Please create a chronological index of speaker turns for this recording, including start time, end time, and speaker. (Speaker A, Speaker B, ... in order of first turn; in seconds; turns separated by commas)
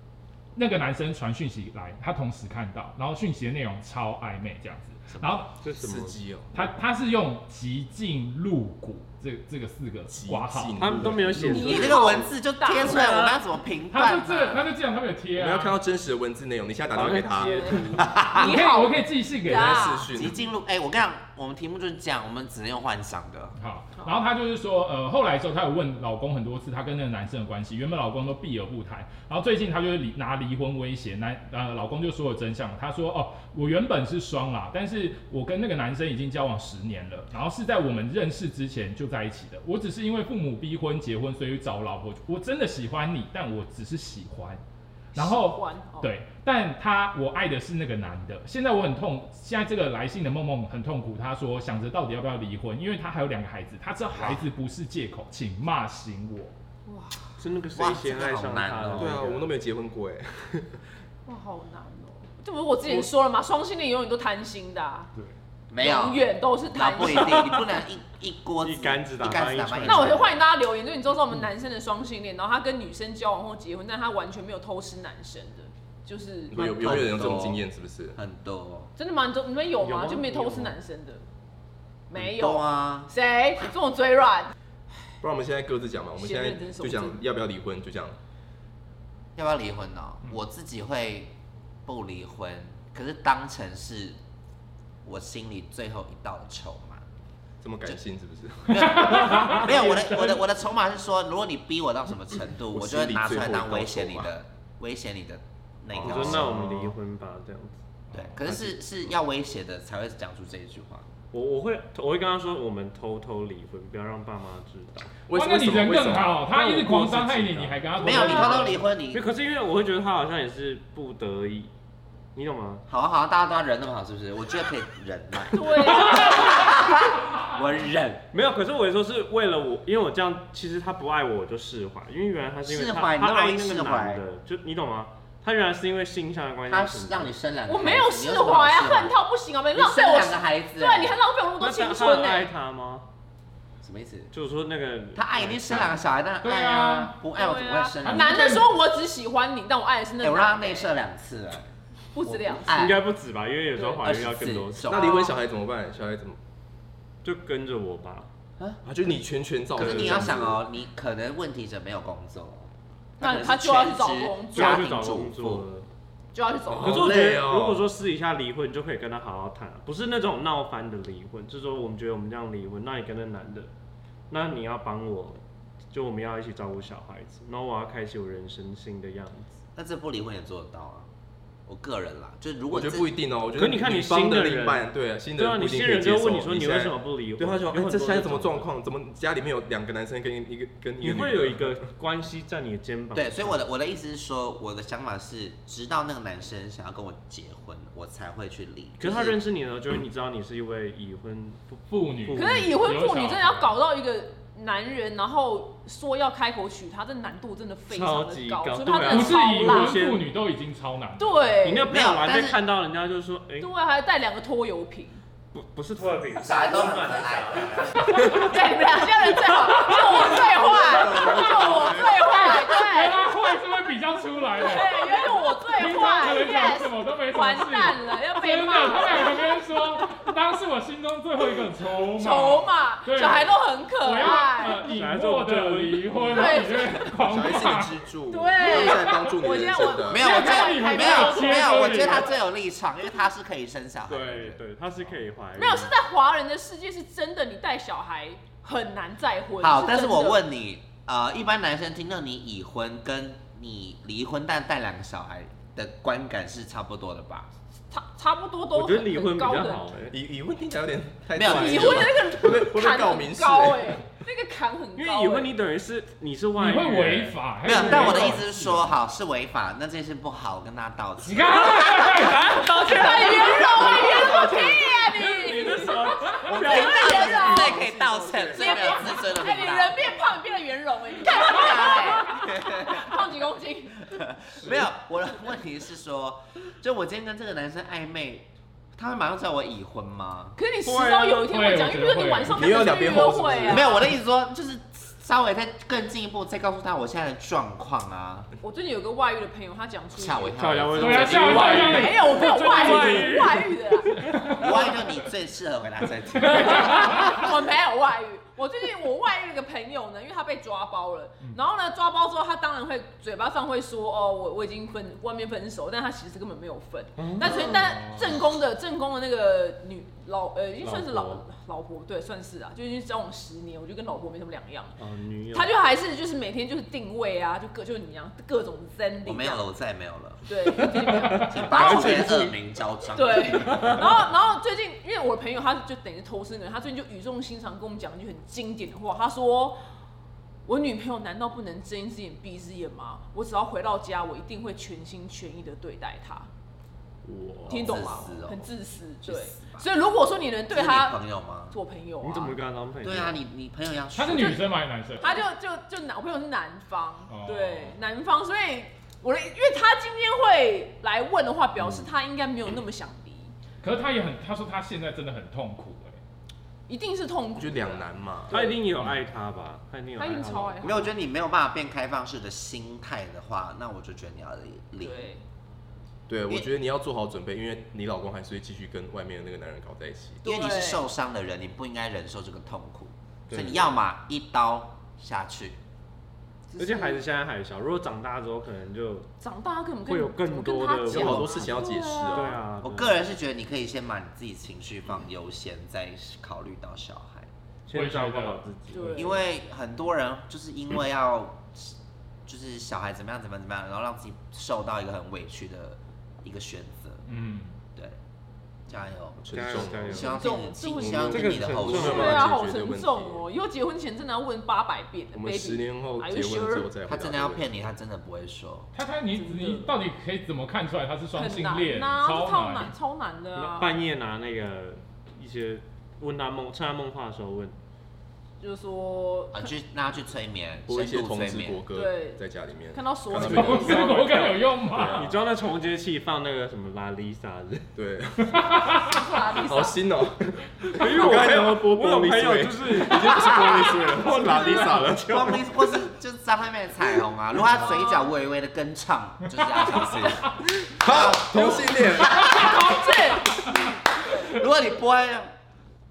Speaker A: 0.5-5.5, Speaker B: 5.6-6.2, Speaker C: 5.8-6.5, Speaker A: 6.5-11.1, Speaker C: 10.1-11.9, Speaker B: 10.8-12.2, Speaker D: 11.5-13.3, Speaker E: 11.5-14.7, Speaker B: 12.9-13.3, Speaker A: 13.9-15.8, Speaker C: 15.3-17.7, Speaker B: 16.9-18.1, Speaker D: 17.4-20.1, Speaker E: 17.7-18.6, Speaker A: 18.2-19.9, Speaker C: 19.5-20.4, Speaker E: 20.1-23.5, Speaker A: 23.6-44.6, Speaker D: 45.1-46.1, Speaker A: 45.1-56.5, Speaker E: 54.1-54.4, Speaker D: 56.9-57.2, Speaker B: 57.4-59.5, Speaker E: 57.7-59.2, Speaker C: 59.0-60.8, Speaker D: 61.2-65.1, Speaker E: 65.7-70.3, Speaker D: 65.8-67.6, Speaker B: 68.6-70.3, Speaker D: 69.8-76.9, Speaker C: 76.5-78.2, Speaker E: 76.5-77.6, Speaker E: 78.2-78.9, Speaker D: 79.0-81.2, Speaker B: 79.8-80.8, Speaker D: 82.1-84.5, Speaker E: 82.1-83.1, Speaker C: 85.2-88.2, Speaker D: 86.2-87.2, Speaker E: 89.3-91.3, Speaker E: 91.8-94.2, Speaker E: 95.0-97.0, Speaker C: 97.6-99.2, Speaker E: 98.7-106.6, Speaker A: 98.8-99.7, Speaker B: 99.3-100.3, Speaker C: 102.7-104.3, Speaker C: 105.9-106.9, Speaker B: 106.0-107.8, Speaker E: 108.1-111.1, Speaker C: 108.4-108.9, Speaker B: 111.3-115.1, Speaker C: 115.2-116.4, Speaker A: 115.3-118.8, Speaker B: 116.5-121.7, Speaker E: 118.0-119.2, Speaker D: 118.1-118.6, Speaker B: 122.3-122.8, Speaker E: 122.9-128.2, Speaker D: 125.5-126.7, Speaker B: 128.3-137.3, Speaker E: 132.6-134.2, Speaker E: 136.7-139.1, Speaker D: 137.7-142.5, Speaker E: 139.7-141.2, Speaker B: 141.6-143.1, Speaker E: 143.8-144.3, Speaker B: 144.3-146.0, Speaker E: 145.2-148.5, Speaker A: 146.4-147.2, Speaker D: 147.3-150.9, Speaker A: 148.0-148.7, Speaker E: 150.2-151.7, Speaker D: 152.1-152.8, Speaker E: 152.2-153.1, Speaker B: 152.7-155.1, Speaker E: 153.8-155.3, Speaker C: 154.8-156.4, Speaker B: 157.2-158.3, Speaker C: 158.8-160.6, Speaker B: 159.7-160.6, Speaker E: 159.8-165.6, Speaker D: 163.2-164.9, Speaker B: 164.5-165.8, Speaker D: 166.3-167.2, Speaker C: 166.7-167.9, Speaker B: 166.7-173.7, Speaker B: 174.3-179.6, Speaker E: 179.8-181.1, Speaker E: 181.7-183.1, Speaker C: 182.7-191.7, Speaker B: 183.5-188.7, Speaker B: 191.0-193.6, Speaker E: 193.1-199.4, Speaker B: 199.0-202.9, Speaker A: 201.9-203.7, Speaker D: 202.3-210.0, Speaker B: 207.9-210.2, Speaker A: 209.1-211.4, Speaker D: 211.2-211.9, Speaker B: 211.6-213.7, Speaker E: 211.8-212.6, Speaker D: 213.6-215.2, Speaker B: 215.5-218.5, Speaker E: 216.3-218.4, Speaker D: 218.1-223.2, Speaker A: 219.7-220.4, Speaker C: 220.3-222.2, Speaker A: 221.1-237.9, Speaker D: 224.6-229.6, Speaker D: 232.2-234.9, Speaker B: 234.6-236.9, Speaker D: 236.2-237.5, Speaker C: 237.2-240.2, Speaker D: 238.3-242.4, Speaker A: 238.8-239.3, Speaker E: 240.0-244.6, Speaker A: 240.2-242.3, Speaker B: 244.1-245.9, Speaker D: 245.6-250.4, Speaker E: 249.6-257.5, Speaker D: 257.9-259.9, Speaker B: 258.7-260.1, Speaker C: 260.1-264.0, Speaker E: 261.3-262.2, Speaker D: 261.4-265.5, Speaker B: 264.9-268.6, Speaker A: 266.6-268.8, Speaker E: 267.6-272.1, Speaker A: 271.2-272.9, Speaker D: 271.9-277.8, Speaker B: 272.4-274.5, Speaker C: 273.7-274.8, Speaker B: 275.1-277.3, Speaker A: 276.2-276.4, Speaker C: 276.5-279.0, Speaker E: 276.6-280.2, Speaker D: 278.5-284.1, Speaker E: 281.2-283.1, Speaker E: 284.1-290.6, Speaker B: 284.6-284.9, Speaker D: 290.6-294.1, Speaker B: 290.8-291.4, Speaker A: 291.4-293.2, Speaker C: 292.5-294.0, Speaker E: 293.6-298.5, Speaker D: 298.6-304.8, Speaker E: 300.1-302.0, Speaker B: 300.5-304.6, Speaker A: 300.9-303.4, Speaker A: 304.3-304.6, Speaker E: 304.4-307.6, Speaker A: 306.4-307.4, Speaker D: 306.4-325.0, Speaker B: 317.2-317.8, Speaker A: 317.4-318.3, Speaker B: 320.8-321.4, Speaker B: 325.0-325.8, Speaker D: 325.5-329.7, Speaker E: 329.2-330.4, Speaker D: 330.4-332.2, Speaker B: 331.1-332.6, Speaker E: 331.5-334.0, Speaker D: 333.1-339.8, Speaker B: 333.6-334.1, Speaker D: 340.6-346.5, Speaker C: 347.2-348.0, Speaker E: 347.7-348.7, Speaker D: 347.7-352.6, Speaker E: 349.2-349.9, Speaker E: 350.7-351.8, Speaker B: 352.2-353.4, Speaker E: 353.0-354.6, Speaker A: 354.1-355.4, Speaker D: 354.3-354.6, Speaker D: 355.2-363.5, Speaker A: 357.3-357.9, Speaker E: 361.8-362.1, Speaker A: 363.8-366.2, Speaker D: 366.9-368.0, Speaker C: 367.6-368.7, Speaker B: 368.5-371.1, Speaker D: 370.2-371.1, Speaker E: 370.8-375.3, Speaker D: 375.0-375.4, Speaker C: 376.3-380.4, Speaker D: 380.4-381.1, Speaker E: 380.4-385.8, Speaker B: 383.5-383.9, Speaker D: 386.7-387.2, Speaker B: 386.8-389.3, Speaker D: 389.4-392.6, Speaker B: 390.1-391.6, Speaker C: 391.1-392.6, Speaker E: 391.1-391.9, Speaker B: 392.3-393.2, Speaker E: 392.8-397.5, Speaker B: 397.9-399.3, Speaker A: 397.9-398.6, Speaker D: 398.9-399.5, Speaker E: 399.1-401.9, Speaker E: 402.4-407.2, Speaker A: 407.2-407.8, Speaker E: 408.9-412.5, Speaker C: 409.4-410.3, Speaker B: 409.5-410.3, Speaker D: 410.2-411.4, Speaker C: 410.9-413.4, Speaker B: 411.2-412.5, Speaker D: 411.9-416.9, Speaker C: 415.3-417.7, Speaker E: 417.0-418.9, Speaker A: 418.9-422.9, Speaker D: 419.3-419.9, Speaker D: 421.3-424.0, Speaker B: 423.5-427.8, Speaker D: 428.6-429.7, Speaker E: 429.5-431.8, Speaker C: 430.9-434.1, Speaker D: 431.9-432.4, Speaker D: 432.9-434.6, Speaker A: 433.4-435.3, Speaker B: 433.6-437.9, Speaker C: 434.9-435.4, Speaker C: 437.9-445.6, Speaker A: 438.5-439.2, Speaker D: 439.0-440.0, Speaker B: 440.9-445.6, Speaker D: 444.0-444.9, Speaker E: 445.3-455.5, Speaker D: 447.7-448.3, Speaker C: 450.8-452.6, Speaker D: 452.2-453.7, Speaker A: 452.3-453.0